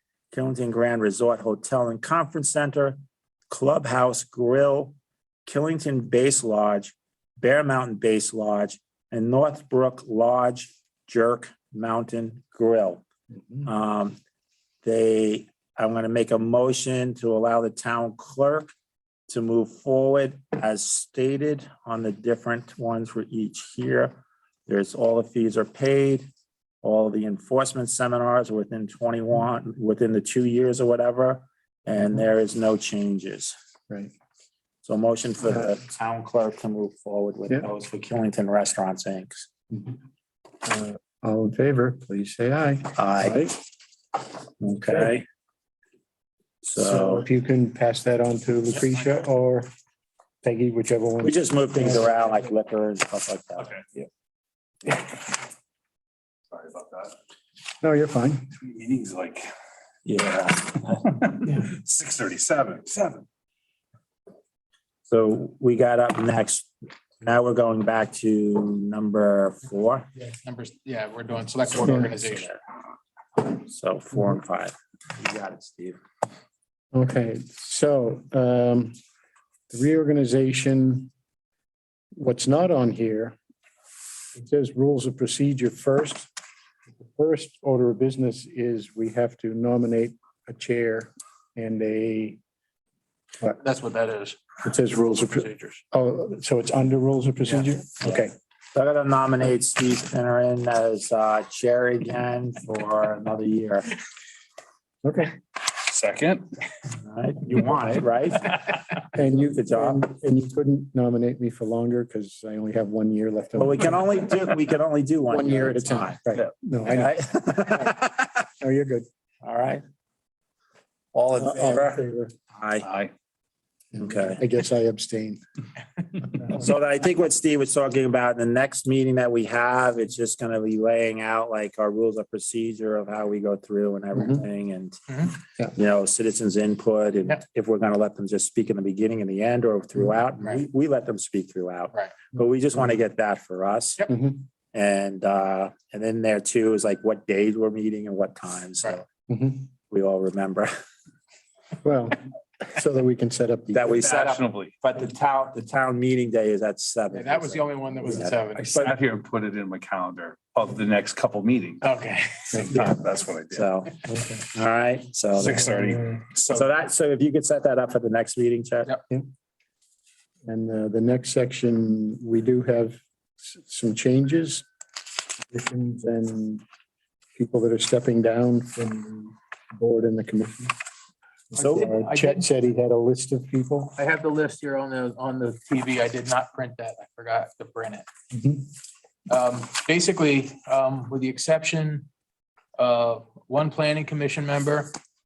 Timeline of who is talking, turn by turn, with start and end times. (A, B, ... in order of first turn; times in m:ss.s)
0:00.3-0:03.0 A
0:03.5-0:13.0 A
0:13.6-0:14.2 A
0:14.8-0:18.7 A
0:19.3-0:24.1 A
0:24.7-0:26.2 A
0:26.8-0:33.5 A
0:34.8-0:39.5 A
0:40.6-0:43.6 B
0:43.0-0:43.5 A
0:44.6-0:45.2 A
0:46.6-0:47.2 A
0:46.8-0:49.7 B
0:50.4-0:52.4 B
0:51.2-0:53.7 A
0:53.6-0:53.9 C
0:54.8-0:55.3 C
0:56.5-0:57.2 C
0:57.8-0:58.5 B
0:58.6-0:59.5 C
1:00.0-1:01.2 A
1:01.0-1:03.2 C
1:05.1-1:06.7 A
1:07.2-1:10.1 A
1:10.2-1:12.5 D
1:11.8-1:12.1 B
1:13.4-1:16.0 A
1:16.9-1:18.9 B
1:19.7-1:21.1 B
1:22.1-1:23.3 B
1:24.4-1:26.3 B
1:27.0-1:32.4 B
1:33.6-1:34.4 D
1:34.6-1:38.3 B
1:35.4-1:35.8 D
1:38.0-1:43.9 A
1:45.0-1:45.3 B
1:45.7-1:46.5 C
1:46.9-1:50.0 A
1:49.1-1:54.1 B
1:53.6-1:56.2 A
1:55.3-1:57.2 B
1:56.8-1:58.3 A
1:57.7-1:58.0 B
1:58.6-1:59.0 B
1:59.4-1:59.8 A
2:01.1-2:02.0 A
2:01.4-2:02.3 B
2:02.5-2:02.9 A
2:02.8-2:03.1 C
2:03.9-2:05.4 B
2:04.0-2:04.4 A
2:06.4-2:15.0 A
2:14.2-2:14.4 B
2:15.1-2:15.4 D
2:15.7-2:24.0 A
2:24.1-2:24.4 B
2:24.7-2:29.0 A
2:29.3-2:29.7 B
2:29.9-2:30.7 A
2:31.8-2:34.0 B
2:33.7-2:38.9 A
2:33.9-2:34.7 C
2:37.1-2:38.8 D
2:38.5-2:41.8 C
2:41.8-2:42.7 D
2:42.5-2:43.6 C
2:43.5-2:44.0 A
2:44.1-2:44.4 B
2:44.5-2:45.7 A
2:45.4-2:46.7 C
2:46.5-2:48.9 A
2:50.4-2:54.6 B
2:55.5-2:56.6 B
2:57.3-3:00.7 B
3:01.5-3:03.9 B
3:01.6-3:01.9 A
3:01.6-3:02.4 D
3:04.0-3:08.1 D
3:08.3-3:08.7 B
3:09.3-3:12.1 D
3:12.8-3:14.9 D